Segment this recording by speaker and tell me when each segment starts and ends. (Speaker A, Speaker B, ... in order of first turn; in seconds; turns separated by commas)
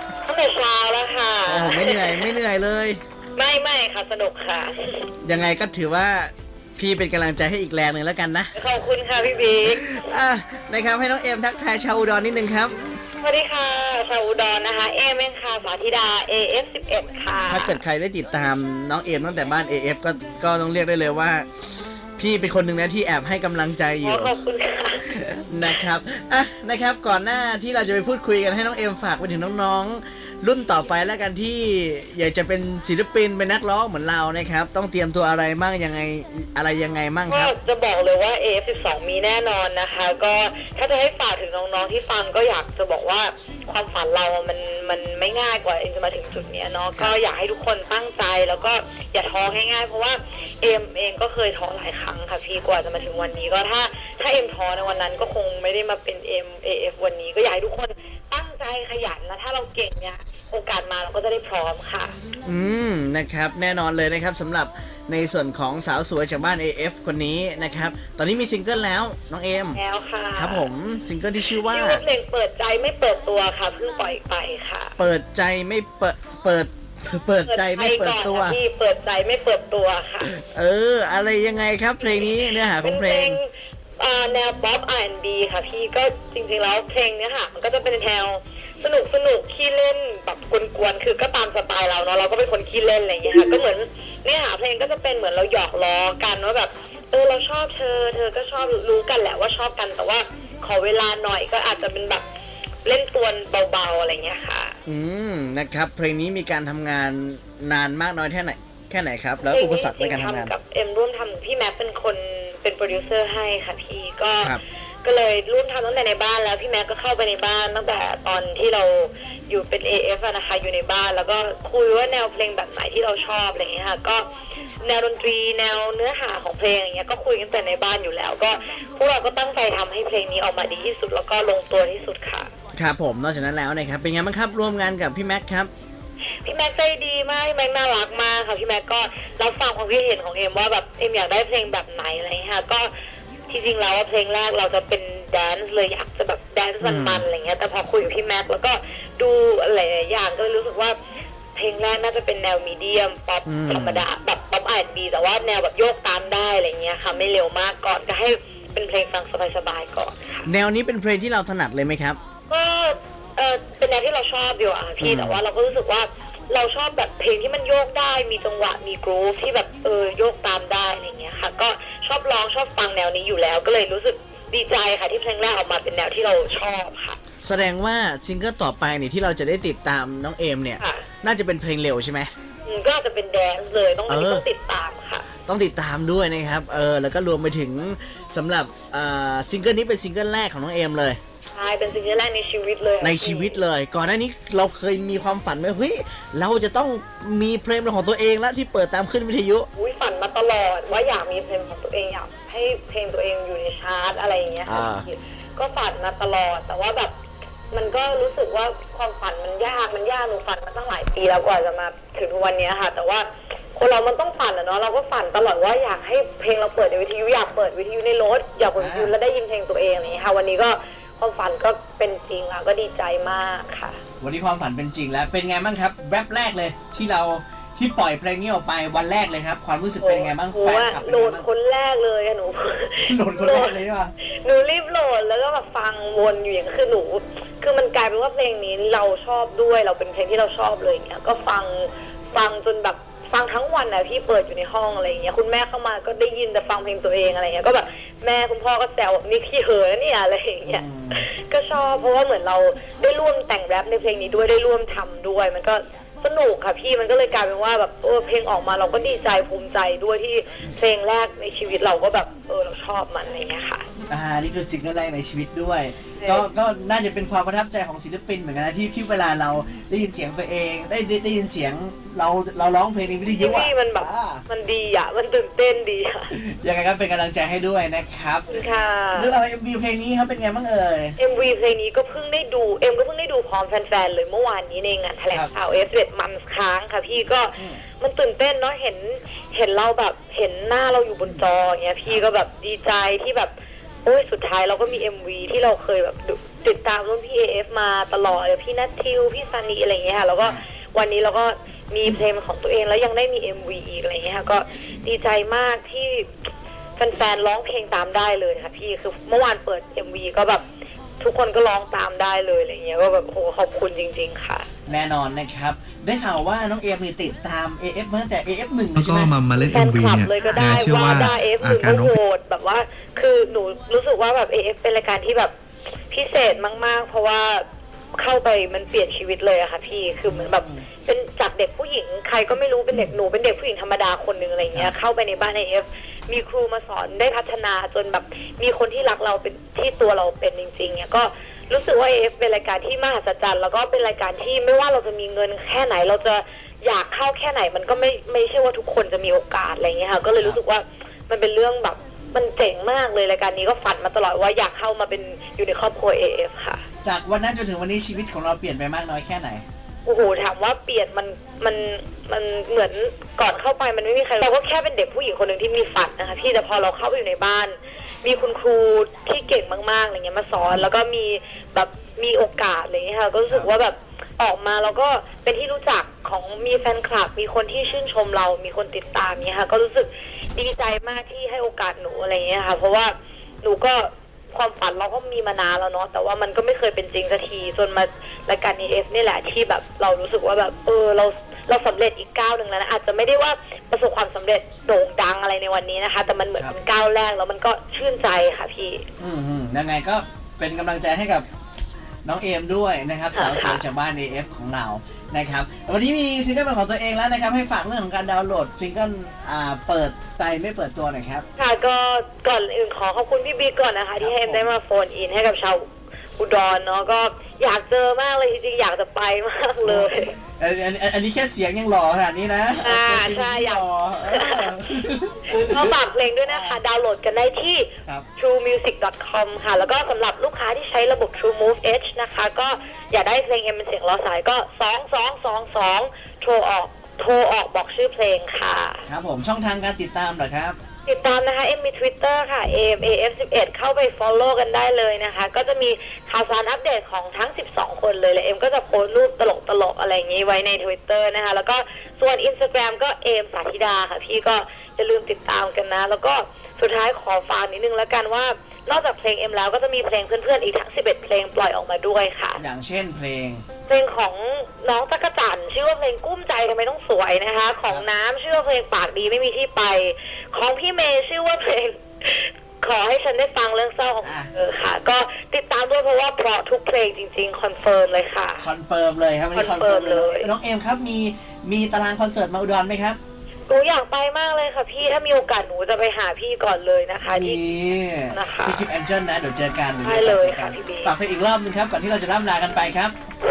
Speaker A: 0.2-2.3, Speaker B: 1.5-3.0, Speaker A: 3.4-5.1, Speaker B: 5.2-8.5, Speaker A: 8.6-10.0, Speaker B: 9.7-12.8, Speaker A: 13.2-17.8, Speaker B: 17.5-24.3, Speaker A: 24.0-25.1, Speaker B: 25.1-37.5, Speaker A: 37.3-62.2, Speaker B: 62.5-69.8, Speaker A: 69.8-70.7, Speaker B: 70.4-72.0, Speaker A: 71.6-75.0, Speaker B: 75.0-78.6, Speaker A: 77.5-80.3, Speaker B: 80.3-83.4, Speaker A: 82.4-83.5, Speaker A: 84.0-102.2, Speaker A: 102.8-104.8, Speaker B: 104.9-110.5, Speaker A: 109.5-124.3, Speaker A: 124.8-132.5, Speaker B: 132.7-135.7, Speaker A: 136.4-142.9, Speaker A: 143.5-151.0, Speaker B: 146.8-147.3, Speaker A: 151.6-160.5, Speaker B: 153.5-154.0, Speaker B: 160.5-162.2, Speaker A: 162.5-177.2, Speaker B: 165.0-165.4, Speaker B: 177.4-182.3, Speaker A: 180.8-181.1, Speaker A: 182.7-185.3, Speaker B: 184.1-184.4, Speaker B: 185.5-191.2, Speaker A: 191.5-193.6, Speaker B: 193.0-199.7, Speaker A: 199.8-207.1, Speaker B: 204.7-205.1, Speaker A: 207.7-224.0, Speaker B: 218.8-219.1, Speaker B: 224.2-231.5, Speaker A: 230.0-263.9, Speaker B: 233.0-234.1, Speaker B: 250.6-251.2, Speaker B: 264.1-274.4, Speaker A: 266.2-266.5, Speaker A: 273.4-276.3, Speaker B: 276.3-278.5, Speaker A: 278.5-279.3, Speaker B: 279.1-281.2, Speaker A: 281.2-293.5, Speaker A: 294.1-306.3, Speaker A: 307.0-310.6, Speaker A: 311.2-314.7, Speaker B: 314.9-319.4, Speaker C: 318.9-322.2, Speaker A: 319.6-325.5, Speaker A: 326.1-327.6, Speaker A: 328.2-356.8, Speaker B: 330.3-330.8, Speaker B: 357.0-359.6, Speaker A: 360.1-399.1, Speaker B: 399.2-401.5, Speaker B: 402.2-411.4, Speaker A: 403.3-403.8, Speaker A: 411.6-415.9, Speaker B: 414.2-414.6, Speaker A: 416.4-420.4, Speaker B: 419.9-425.9, Speaker A: 422.8-439.1, Speaker B: 426.5-426.8, Speaker B: 439.1-440.8, Speaker A: 441.1-462.6, Speaker B: 462.6-463.6, Speaker A: 463.9-478.7, Speaker B: 474.2-474.5, Speaker B: 478.6-483.2, Speaker A: 479.6-480.5, Speaker A: 483.7-487.6, Speaker B: 487.3-493.1, Speaker A: 488.3-488.8, Speaker A: 490.0-491.1